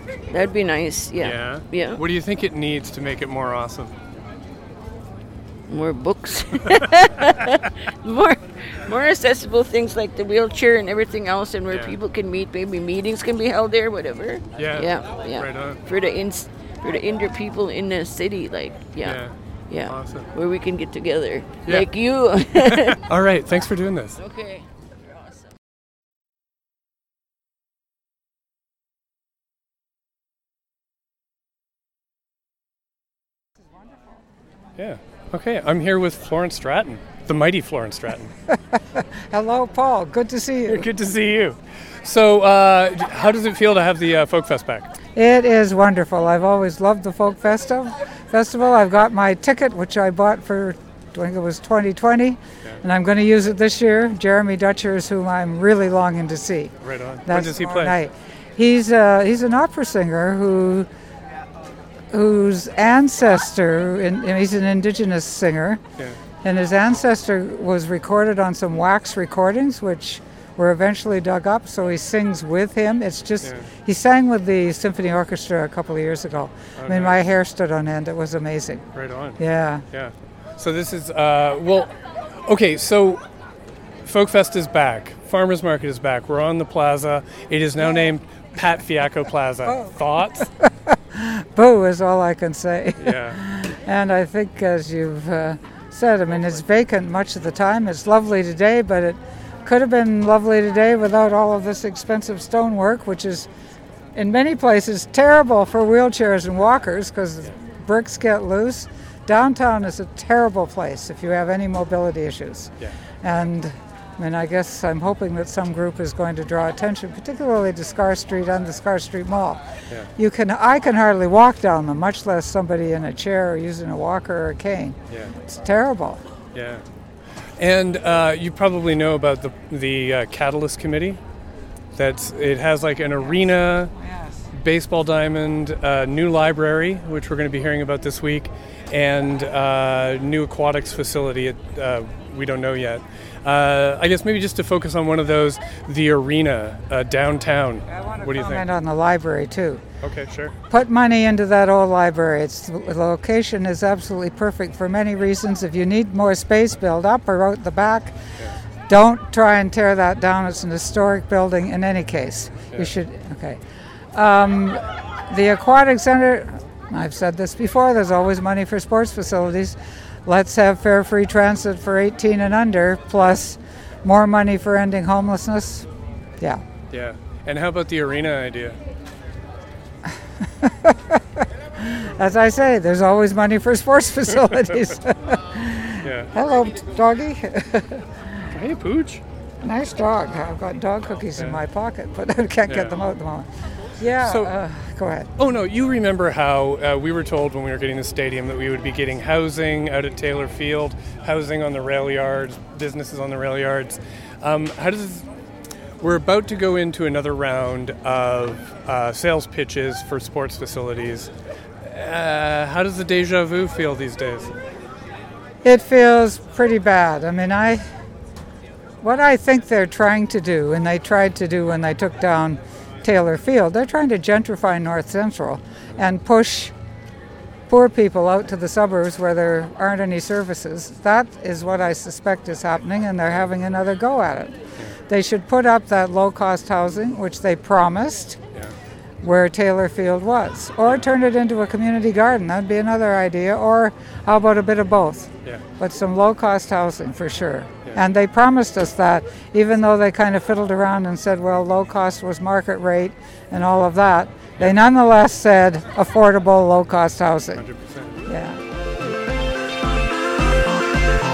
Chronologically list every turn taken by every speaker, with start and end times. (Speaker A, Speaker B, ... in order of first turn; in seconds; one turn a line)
Speaker A: 0.3-2.0
Speaker B: 1.2-3.9
Speaker A: 5.7-23.0
Speaker B: 11.7-11.9
Speaker B: 14.6-15.8
Speaker B: 19.0-19.3
Speaker B: 19.9-20.3
Speaker B: 22.6-24.2
Speaker A: 24.1-25.5
Speaker B: 34.8-38.3
Speaker C: 38.5-40.9
Speaker B: 40.7-44.9
Speaker C: 45.1-56.7
Speaker B: 56.8-58.0
Speaker C: 57.3-60.9
Speaker C: 62.1-65.8
Speaker C: 66.4-78.8
Speaker B: 76.8-77.2
Speaker B: 78.9-79.4
Speaker C: 79.4-79.8
Speaker B: 79.9-81.9
Speaker B: 82.5-83.2
Speaker B: 84.0-90.5
Speaker C: 90.6-103.5
Speaker B: 93.0-93.4
Speaker C: 104.1-119.6
Speaker C: 120.2-126.2
Speaker B: 126.5-126.8
Speaker B: 127.6-131.2
Speaker B: 131.9-133.9
Speaker C: 134.0-134.4
Speaker B: 134.5-148.7
Speaker C: 147.9-149.8
Speaker B: 150.0-150.5
Speaker C: 150.7-158.1
Speaker C: 158.9-163.6
Speaker C: 164.1-175.9
Speaker B: 176.9-178.8
Speaker C: 180.6-188.0
Speaker B: 186.0-186.3
Speaker B: 188.5-189.2
Speaker C: 189.6-193.5
Speaker B: 192.7-193.0
Speaker C: 194.0-195.3
Speaker B: 194.1-194.5
Speaker B: 195.4-205.2
Speaker B: 206.0-211.3
Speaker B: 211.8-214.5
Speaker C: 215.6-217.8
Speaker C: 219.0-226.7
Speaker C: 227.7-234.6
Speaker C: 235.1-238.4
Speaker C: 239.2-257.6
Speaker B: 257.6-258.2
Speaker C: 258.3-258.6